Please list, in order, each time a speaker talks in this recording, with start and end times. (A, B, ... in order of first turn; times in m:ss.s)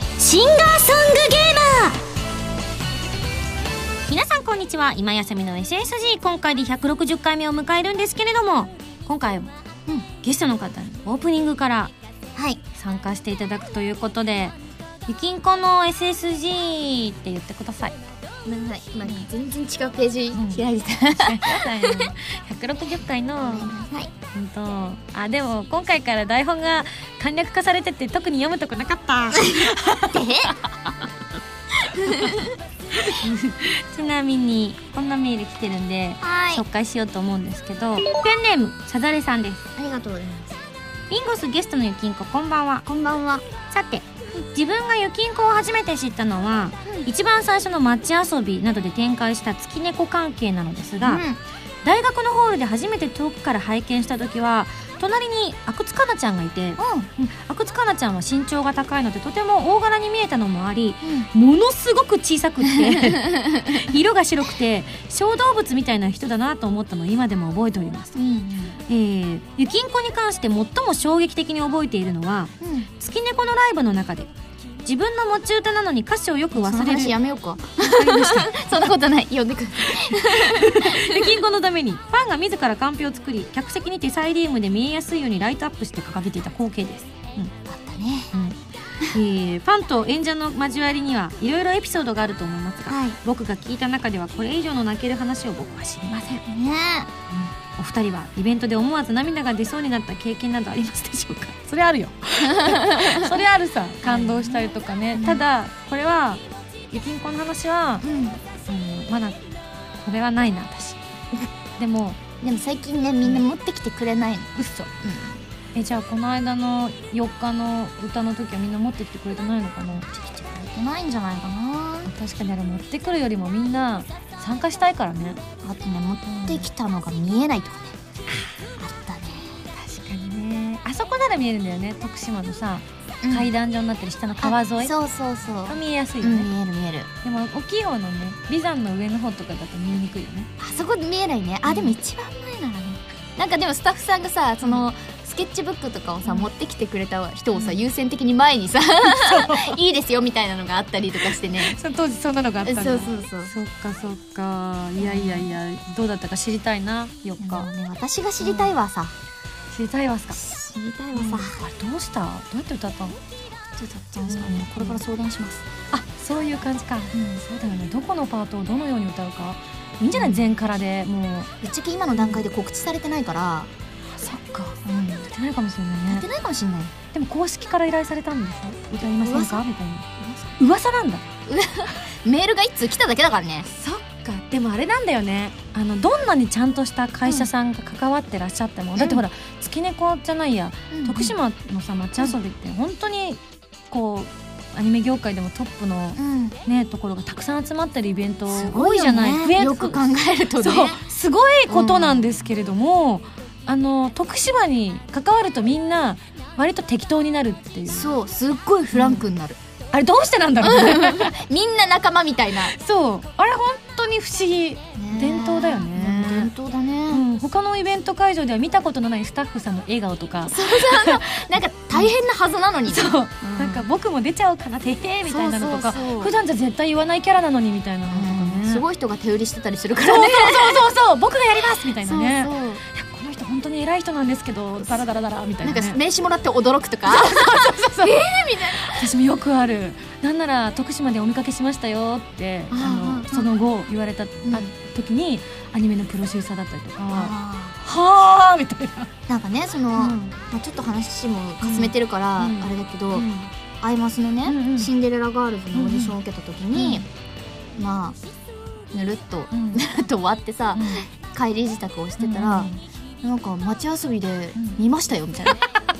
0:00.2-0:02.0 A
0:04.1-0:09.5 A
0:10.2-0:11.9 A
0:12.3-0:12.6 B
0:12.7-0:14.6 A
0:15.1-0:18.0 A
0:18.4-0:22.1 B
0:20.3-0:23.7 A
0:23.4-0:24.1 B
0:24.3-0:30.1 A
0:29.3-0:30.5 B
0:32.0-0:32.5 B
0:33.0-0:39.6 A
0:36.2-0:36.6 B
0:39.8-0:40.6 B
0:41.1-0:42.8 A
0:42.8-0:43.4 B
0:43.7-0:51.2 A
0:51.0-0:51.4 B
0:51.8-1:08.2 A
0:56.8-0:57.1 B
1:01.0-1:01.3 B
1:02.6-1:03.8 B
1:08.2-1:08.8 B
1:08.9-1:17.2 A
1:12.6-1:12.9 B
1:16.5-1:21.4 B
1:17.8-1:18.6 A
1:19.8-1:27.5 A
1:27.7-1:28.3 B
1:28.3-1:36.4 A
1:32.9-1:33.2 B
1:36.4-1:37.1 B
1:37.3-1:48.0 A
1:42.4-1:43.4 B
1:44.0-1:45.4 B
1:48.0-1:48.4 B
1:48.7-1:49.4 A
1:50.0-1:51.0 A
1:51.8-1:52.2 A
1:52.4-1:55.4 B
1:54.6-1:54.9 A
1:55.7-2:00.1 A
2:00.1-2:02.1 B
2:02.0-2:05.4 A
2:05.6-2:08.0 B
2:06.2-2:06.6 A
2:08.8-2:09.6 B
2:09.7-2:15.0 A
2:13.2-2:13.5 B
2:14.4-2:17.1 B
2:15.7-2:16.5 A
2:17.2-2:20.5 A
2:20.6-2:31.8 B
2:21.7-2:21.9 A
2:27.5-2:27.8 A
2:29.0-2:29.8 A
2:31.5-2:37.7 A
2:32.6-2:33.5 B
2:35.0-2:35.5 B
2:37.4-2:39.1 B
2:38.4-2:38.7 A
2:39.7-2:40.4 A
2:40.3-2:41.6 B
2:41.1-2:43.2 A
2:43.8-2:45.6 B
2:44.3-2:45.0 A
2:45.9-2:51.5 A
2:47.1-2:47.4 B
2:50.1-2:50.4 B
2:51.6-2:53.7 B
2:52.2-2:52.4 A
2:54.2-2:56.2 A
2:54.8-2:55.3 B
2:56.1-2:56.9 B
2:57.1-3:01.2 A
2:59.0-2:59.6 B
3:00.2-3:00.5 B
3:01.5-3:03.7 B
3:03.7-3:20.0 A
3:09.0-3:09.2 B
3:10.9-3:11.4 B
3:16.2-3:16.6 B
3:18.5-3:21.0 B
3:20.6-3:28.1 A
3:21.7-3:22.3 B
3:27.9-3:29.6 B
3:28.9-3:29.2 A
3:29.9-3:31.4 A
3:30.6-3:32.7 B
3:32.6-3:36.5 A
3:35.0-3:37.2 B
3:37.1-3:41.2 A
3:40.5-3:43.8 B
3:42.9-3:48.8 A
3:45.3-3:46.3 B
3:48.1-3:50.9 B
3:50.0-3:56.0 A
3:52.0-3:52.8 B
3:55.6-3:59.0 B
3:57.1-3:58.2 A
3:58.8-4:09.1 A
4:02.7-4:03.5 B
4:04.4-4:04.7 B
4:07.1-4:07.8 B
4:09.3-4:13.3 B
4:09.9-4:10.4 A
4:11.6-4:13.5 A
4:13.8-4:17.0 B
4:14.4-4:14.9 A
4:15.7-4:16.2 A
4:16.7-4:17.0 A
4:17.8-4:18.2 B
4:18.9-4:22.7 B
4:19.5-4:19.8 A
4:20.7-4:21.0 A
4:22.2-4:22.8 A
4:23.2-4:25.6 B